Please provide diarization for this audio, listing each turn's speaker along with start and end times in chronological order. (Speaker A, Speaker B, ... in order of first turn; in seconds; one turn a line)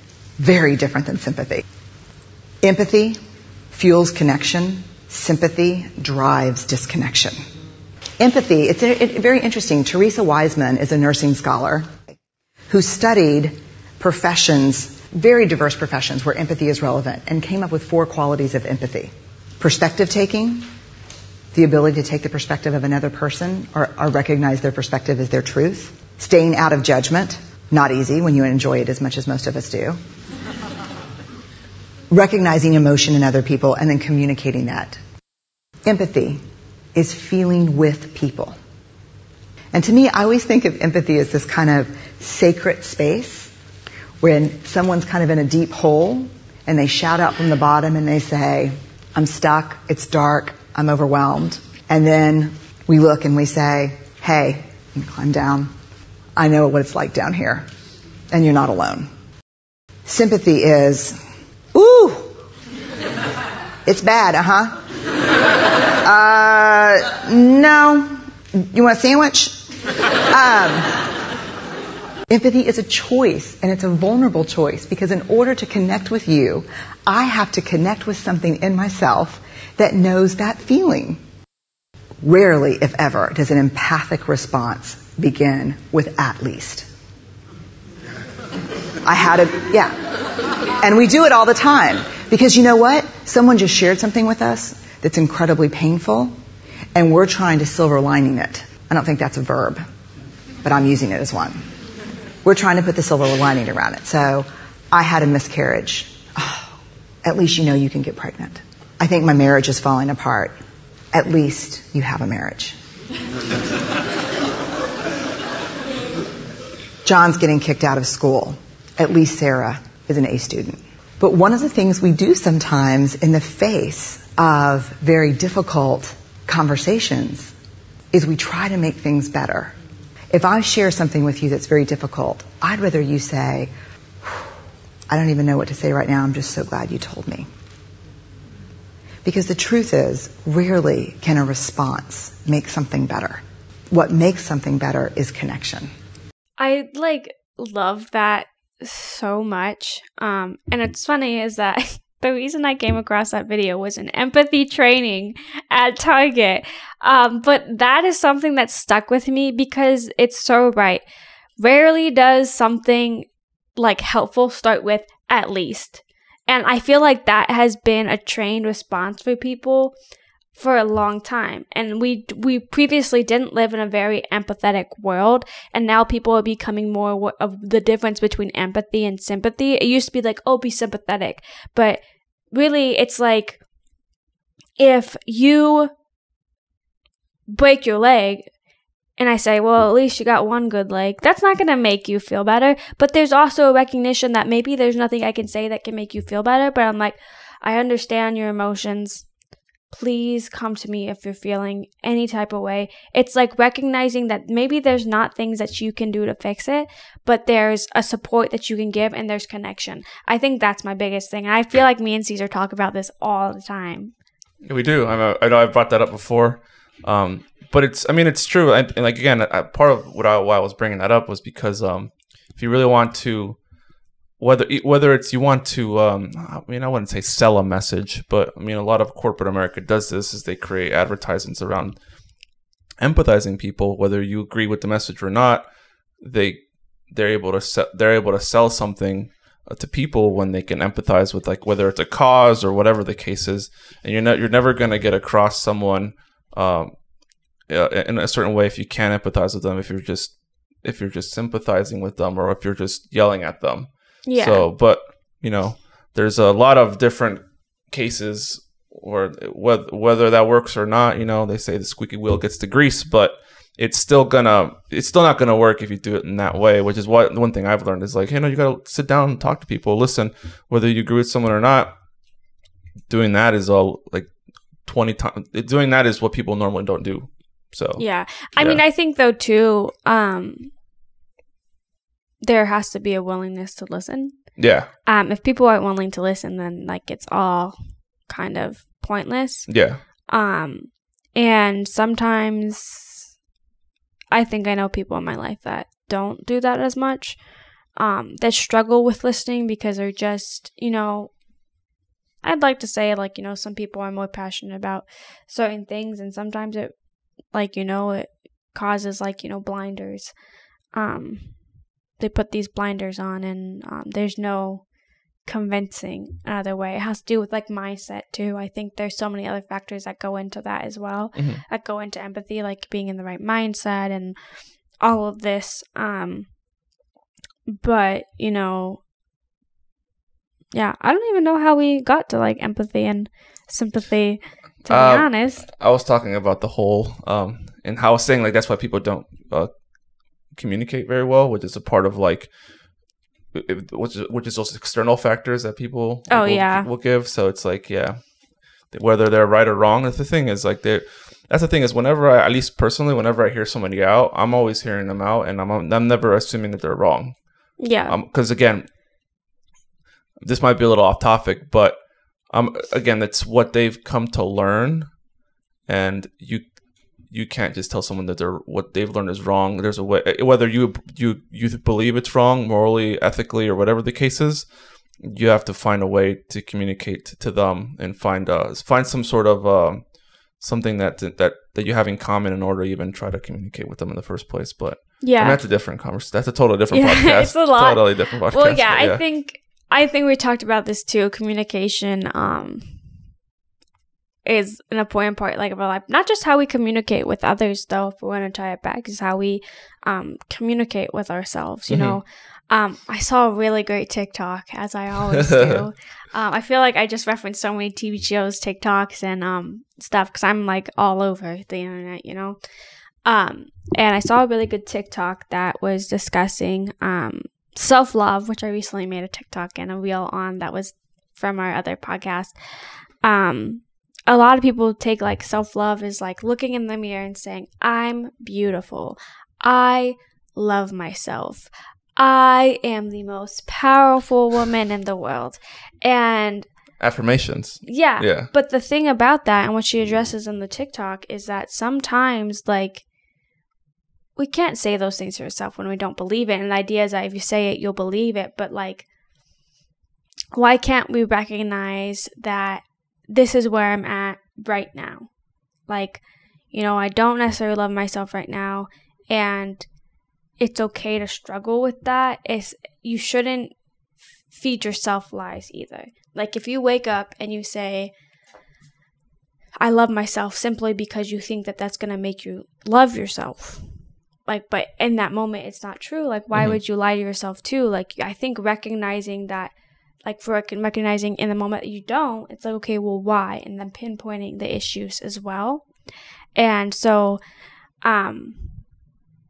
Speaker A: 0.4-1.6
Speaker A: 2.6-3.2
Speaker A: 3.7-7.4
Speaker A: 8.2-11.9
Speaker A: 12.7-20.7
Speaker A: 21.5-30.0
Speaker A: 32.1-35.0
Speaker A: 35.8-36.4
Speaker A: 36.9-38.5
Speaker A: 39.7-43.5
Speaker A: 44.2-55.7
Speaker A: 56.4-57.6
Speaker A: 58.3-59.1
Speaker A: 60.0-61.2
Speaker A: 61.7-62.4
Speaker A: 63.9-64.8
Speaker A: 66.0-69.7
Speaker A: 70.3-71.2
Speaker A: 72.3-81.2
Speaker A: 82.2-86.9
Speaker A: 89.0-90.0
Speaker A: 90.8-96.3
Speaker A: 96.9-99.8
Speaker A: 100.6-101.6
Speaker A: 102.4-106.7
Speaker A: 107.2-110.5
Speaker A: 111.1-112.8
Speaker A: 117.0-127.5
Speaker A: 128.1-129.7
Speaker A: 130.3-133.7
Speaker A: 135.1-137.5
Speaker A: 139.2-145.9
Speaker B: 146.6-161.0
Speaker B: 161.6-169.9
Speaker B: 170.5-182.0
Speaker B: 182.5-183.6
Speaker B: 184.8-185.9
Speaker B: 187.5-188.5
Speaker B: 189.2-199.2
Speaker B: 199.9-214.1
Speaker C: 214.6-223.6
Speaker C: 224.4-232.0
Speaker C: 233.0-235.7
Speaker C: 236.2-246.9
Speaker C: 247.7-271.9
Speaker B: 254.2-254.7
Speaker C: 273.1-274.3
Speaker C: 274.8-278.0
Speaker B: 278.0-280.7
Speaker B: 282.4-284.4
Speaker C: 284.6-284.9
Speaker B: 285.1-289.7
Speaker C: 289.7-290.0
Speaker B: 290.3-293.3
Speaker B: 294.3-297.4
Speaker B: 298.0-301.3
Speaker B: 302.4-306.9
Speaker B: 307.5-310.3
Speaker B: 310.9-311.6
Speaker B: 312.2-314.8
Speaker B: 315.4-324.4
Speaker C: 321.3-321.6
Speaker B: 325.0-326.5
Speaker B: 327.7-329.0
Speaker B: 330.7-335.6
Speaker C: 334.9-339.7
Speaker C: 340.5-342.5
Speaker C: 343.5-348.3
Speaker B: 346.3-346.9
Speaker C: 348.9-358.8
Speaker B: 357.8-358.1
Speaker C: 360.4-362.0
Speaker C: 362.5-365.1
Speaker C: 365.9-389.2
Speaker B: 385.2-385.6
Speaker B: 386.9-393.0
Speaker B: 394.4-412.6
Speaker C: 401.9-402.2
Speaker C: 405.5-405.8
Speaker B: 413.2-436.7
Speaker C: 437.0-438.5
Speaker B: 437.9-443.0
Speaker B: 444.4-449.1
Speaker B: 450.5-455.3
Speaker B: 455.9-459.9
Speaker B: 460.6-463.7
Speaker B: 464.5-468.1
Speaker B: 469.8-473.9
Speaker B: 474.4-479.7
Speaker C: 476.5-476.8
Speaker B: 480.2-485.8
Speaker B: 486.6-487.4
Speaker B: 488.0-488.8